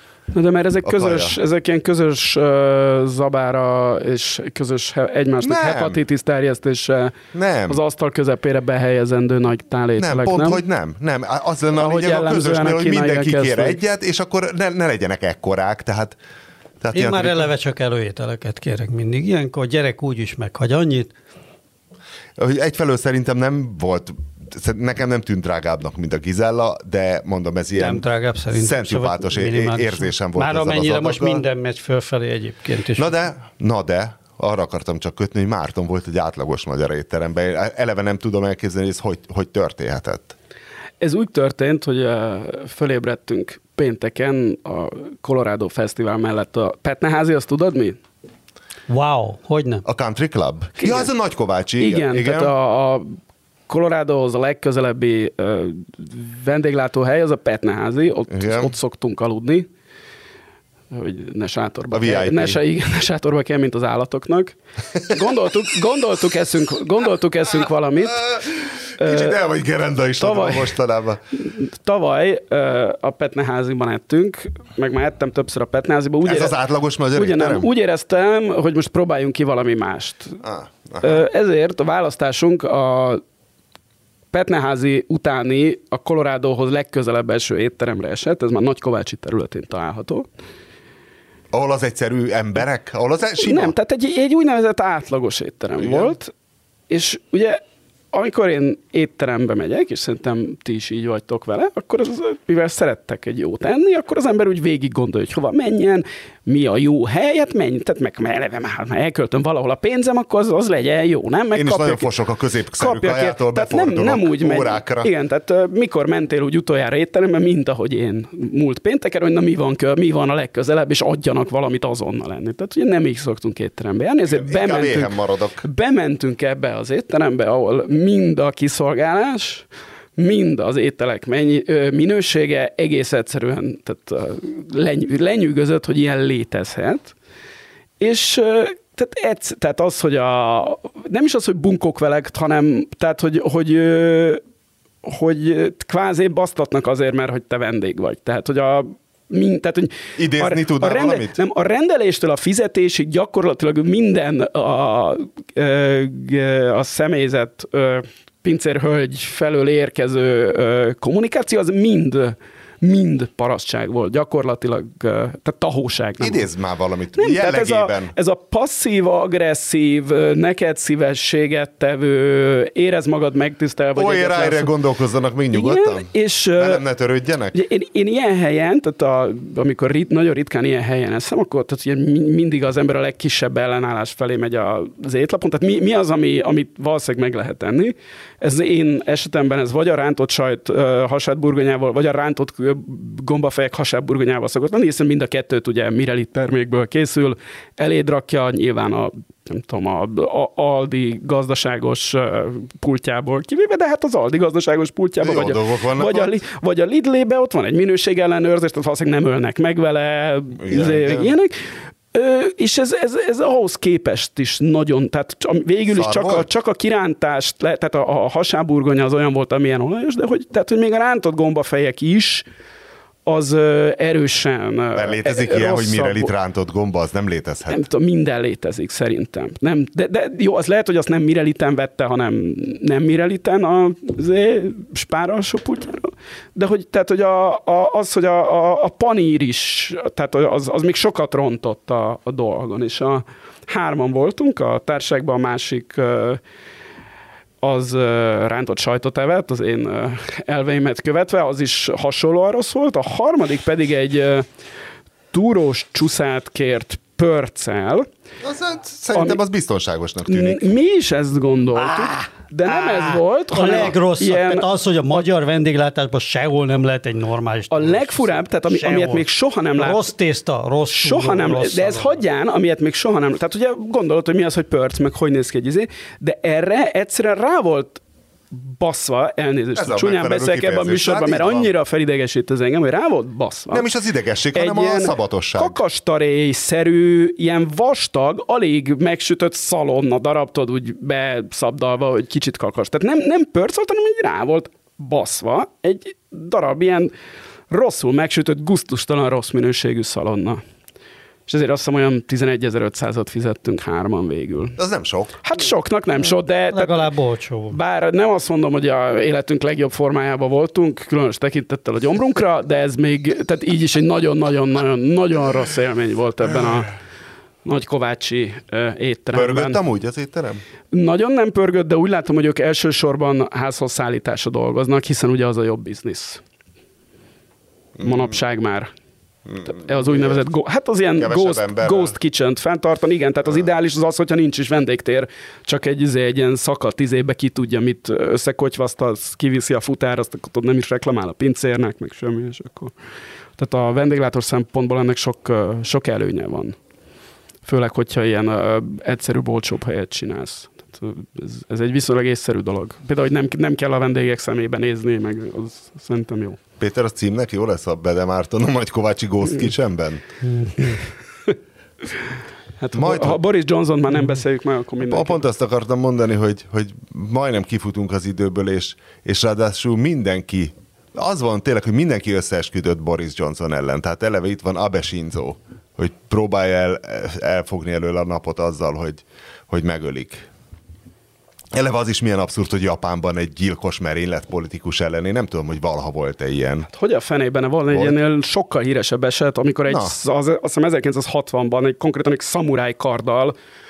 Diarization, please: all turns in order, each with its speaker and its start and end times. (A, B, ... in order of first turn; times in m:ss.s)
0:00.3-0:07.2 A
0:00.8-0:01.4 B
0:05.4-0:06.0 B
0:07.3-0:07.8 B
0:07.7-0:10.6 A
0:10.0-0:16.2 B
0:11.8-0:13.8 A
0:16.8-0:17.5 B
0:16.9-0:21.1 C
0:22.4-0:31.4 B
0:27.8-0:33.1 C
0:33.0-0:40.4 B
0:41.0-0:48.0 A
0:48.9-0:49.8 C
0:49.8-0:52.5 B
0:50.8-0:51.1 A
0:51.8-0:53.2 A
0:53.7-0:59.7 A
0:58.3-0:58.7 B
1:00.9-1:08.5 A
1:01.9-1:02.6 B
1:08.1-1:11.2 B
1:09.0-1:09.4 A
1:10.2-1:10.8 A
1:11.3-1:16.6 A
1:16.2-1:17.7 B
1:17.1-1:20.4 A
1:20.4-1:21.2 B
1:21.0-1:23.2 A
1:24.3-1:30.3 A
1:31.5-1:33.7 B
1:33.4-1:36.3 A
1:35.8-1:36.1 B
1:36.9-1:37.6 A
1:38.1-1:52.1 A
1:51.5-1:55.1 B
1:52.8-2:09.7 A
2:04.3-2:05.6 B
2:10.2-2:17.1 A
2:18.0-2:24.4 A
2:25.0-2:46.5 A
2:30.2-2:31.4 B
2:46.2-2:48.1 B
2:47.2-2:54.7 A
2:54.0-2:57.6 B
2:55.5-2:56.8 A
2:57.5-3:31.6 A
3:25.2-3:26.4 B
3:30.6-3:31.3 B
3:32.1-3:42.4 A
3:35.9-3:36.5 B
3:43.3-3:46.3 A
3:45.0-3:47.8 B
3:47.7-4:06.4 A
4:07.6-4:14.5 A
4:15.3-4:18.1 A
4:18.4-4:20.7 B
4:20.2-4:24.7 A
4:21.8-4:29.2 C
4:27.7-4:30.0 A
4:29.8-4:32.2 C
4:30.9-4:43.9 A
4:39.8-4:41.7 B
4:43.7-4:45.8 B
4:44.5-4:57.1 A
4:57.7-5:00.6 A
5:01.5-5:04.8 A
5:04.8-5:05.4 B
5:05.4-5:07.1 A
5:06.7-5:07.8 C
5:07.7-5:17.0 A
5:17.6-5:19.8 A
5:19.3-5:20.6 B
5:20.9-5:26.4 A
5:28.0-5:28.3 B
5:28.0-5:28.9 A
5:29.5-5:30.4 B
5:29.6-5:42.9 A
5:31.2-5:32.2 B
5:43.6-5:46.8 A
5:47.6-5:56.6 A
5:56.8-6:00.2 B
6:02.8-6:05.4 A
6:03.0-6:03.4 B
6:05.1-6:20.4 B
6:21.7-6:26.9 B
6:26.9-6:33.5 A
6:29.9-6:30.1 B